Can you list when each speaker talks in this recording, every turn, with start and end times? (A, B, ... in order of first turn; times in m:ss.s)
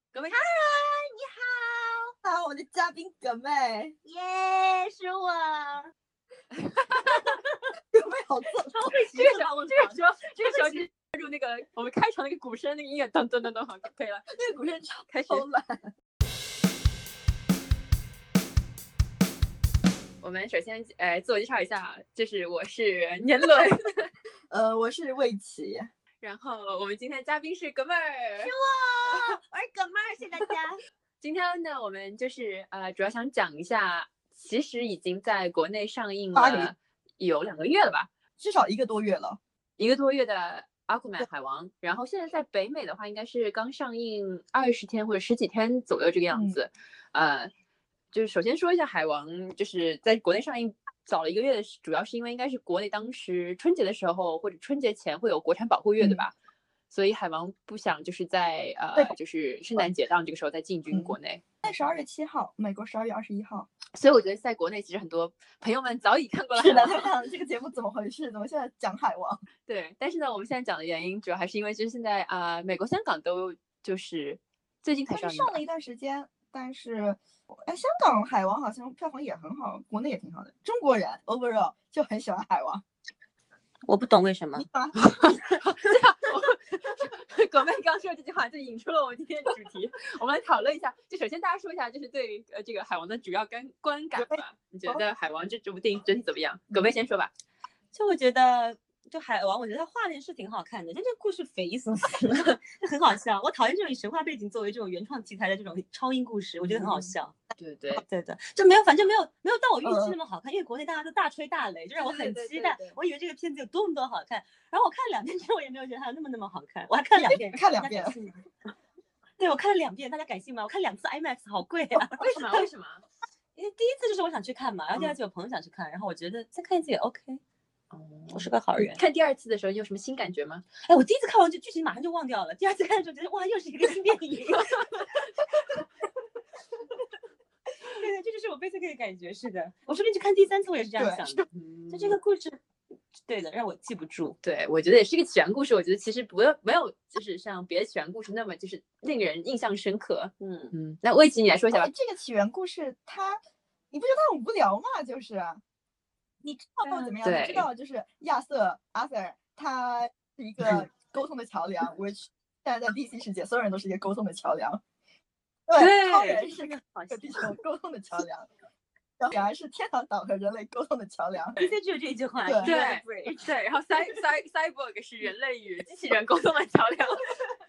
0:00.1-0:00.5 A
0:00.2-0:02.1 B
0:02.2-0:04.0 C
0:04.0-0:05.9 B
0:06.6-0:07.4 A
0:07.0-0:07.6 B
0:07.9-0:08.7 C
0:08.7-0:10.9 B
0:09.0-0:15.5 A
0:14.3-0:15.9 C
0:20.2-0:24.1 A
0:24.5-0:25.9 C
0:26.2-0:28.5 A
0:28.4-0:30.8 B
0:31.2-0:38.1 A
0:36.3-0:36.7 C
0:38.4-0:39.4 C
0:39.8-0:47.5 A
0:46.3-0:46.6 C
0:48.1-0:56.3 A
0:56.0-0:56.3 C
0:56.9-1:01.6 A
1:00.9-1:03.7 C
1:04.0-1:07.1 A
1:06.6-1:09.4 C
1:09.6-1:15.6 A
1:15.1-1:22.8 C
1:23.9-1:25.3 B
1:24.6-1:25.0 C
1:25.2-1:37.3 A
1:34.2-1:35.0 C
1:37.9-1:47.3 B
1:46.7-1:48.0 A
1:48.0-1:58.5 B
1:49.8-1:50.2 C
1:52.0-1:53.0 A
1:57.2-1:58.2 C
1:59.4-2:02.7 B
2:02.1-2:03.0 A
2:03.6-2:07.4 B
2:07.9-2:10.7 A
2:08.3-2:09.0 B
2:10.8-2:15.0 B
2:14.6-2:15.2 A
2:17.9-2:22.6 B
2:21.0-2:21.5 C
2:21.5-2:22.2 A
2:23.2-2:24.4 B
2:24.4-2:31.9 A
2:30.4-2:30.7 B
2:31.7-2:33.4 C
2:33.9-2:35.6 C
2:36.4-2:44.8 C
2:36.8-2:37.2 B
2:37.2-2:37.7 A
2:45.7-2:48.5 C
2:45.8-2:46.5 A
2:45.8-2:47.6 B
2:49.2-2:51.6 C
2:51.6-2:53.5 B
2:52.4-2:52.7 C
2:52.6-2:57.3 A